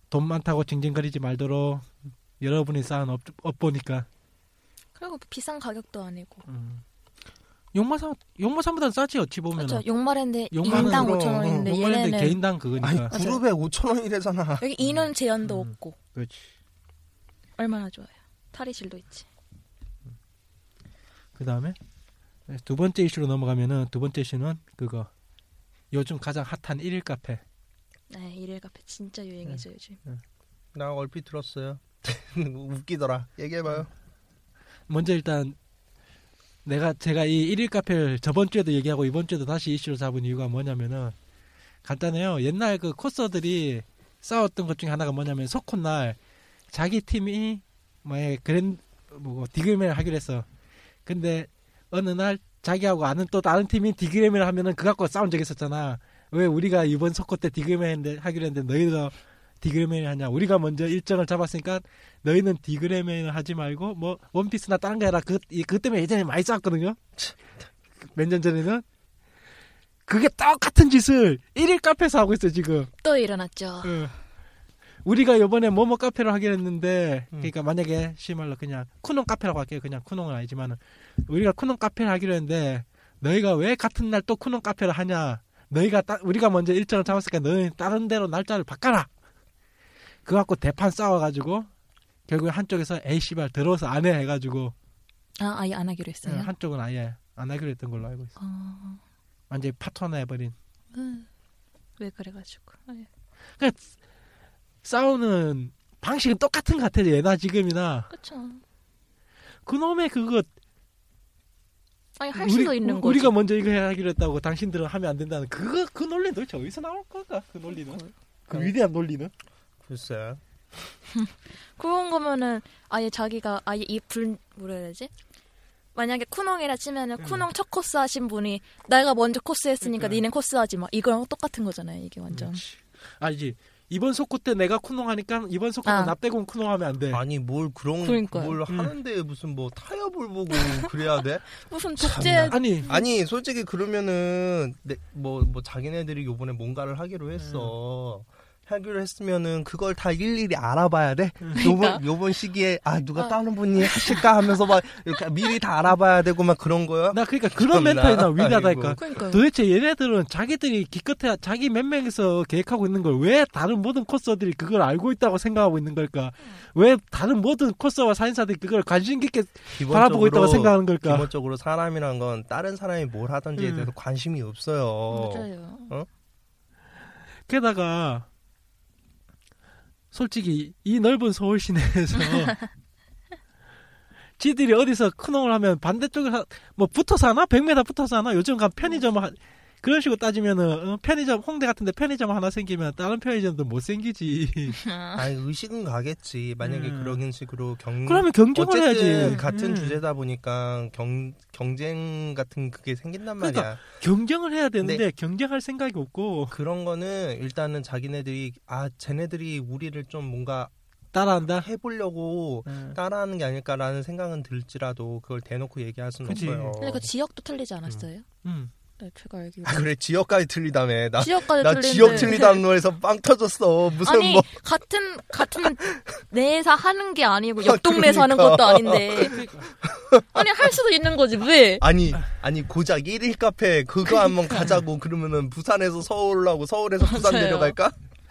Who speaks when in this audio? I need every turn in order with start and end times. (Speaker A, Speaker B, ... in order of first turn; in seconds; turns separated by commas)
Speaker A: 0.1-4.1, Speaker B: 5.0-6.5, Speaker A: 6.5-6.8, Speaker A: 7.7-9.8, Speaker B: 9.6-12.5, Speaker A: 10.5-13.2, Speaker C: 10.7-11.7, Speaker C: 12.8-14.7, Speaker B: 13.1-13.4, Speaker B: 14.6-16.0, Speaker A: 14.8-16.5, Speaker B: 17.6-19.3, Speaker A: 21.4-21.8, Speaker A: 22.5-25.1, Speaker A: 25.9-27.4, Speaker B: 28.1-30.0, Speaker A: 29.4-30.2, Speaker C: 30.7-33.9, Speaker A: 34.9-35.6, Speaker A: 36.6-41.1, Speaker A: 41.8-46.2, Speaker A: 46.7-50.5, Speaker A: 51.1-67.0, Speaker C: 67.2-67.5, Speaker A: 68.1-68.8, Speaker A: 70.1-72.9, Speaker B: 73.0-74.0, Speaker A: 73.8-74.1, Speaker A: 75.0-89.1, Speaker A: 90.2-91.7, Speaker A: 92.3-94.7, Speaker B: 95.4-96.5, Speaker A: 96.2-98.4, Speaker B: 98.4-99.0, Speaker A: 99.5-100.5, Speaker B: 100.9-101.3, Speaker B: 102.0-103.1, Speaker A: 103.6-103.8, Speaker A: 104.8-108.1, Speaker B: 108.1-108.6, Speaker A: 109.7-110.5, Speaker B: 112.2-113.3, Speaker A: 112.3-119.3, Speaker B: 117.7-118.1, Speaker C: 119.8-120.4, Speaker B: 121.2-125.1, Speaker B: 126.0-132.6, Speaker A: 127.2-127.5, Speaker A: 129.8-130.2, Speaker A: 132.3-137.2, Speaker B: 135.8-136.1, Speaker C: 137.1-159.2, Speaker B: 138.0-138.6, Speaker A: 138.7-138.9, Speaker B: 140.5-140.9, Speaker B: 141.5-143.1, Speaker A: 142.5-142.9, Speaker A: 147.4-147.7, Speaker B: 151.6-152.0, Speaker B: 153.2-154.2, Speaker A: 157.1-171.3, Speaker B: 159.0-159.4, Speaker C: 169.7-176.1, Speaker A: 173.6-173.9, Speaker B: 175.1-175.9, Speaker A: 177.5-178.3, Speaker A: 180.1-182.6, Speaker A: 184.4-194.8, Speaker B: 194.8-195.3, Speaker C: 195.1-203.8, Speaker A: 196.6-197.2, Speaker A: 198.1-200.0, Speaker A: 203.4-206.6, Speaker C: 206.5-210.7, Speaker A: 211.1-211.7, Speaker C: 211.5-217.1, Speaker A: 212.7-213.0, Speaker A: 216.2-216.8, Speaker B: 216.4-218.3, Speaker A: 218.4-218.7, Speaker B: 219.0-219.9, Speaker C: 219.7-224.5, Speaker B: 221.2-222.6, Speaker A: 222.0-222.4, Speaker B: 224.0-229.5, Speaker C: 225.6-226.0, Speaker C: 227.6-230.7, Speaker A: 229.3-229.7, Speaker B: 230.3-231.9, Speaker C: 231.8-238.0, Speaker B: 234.1-234.8, Speaker B: 237.0-237.8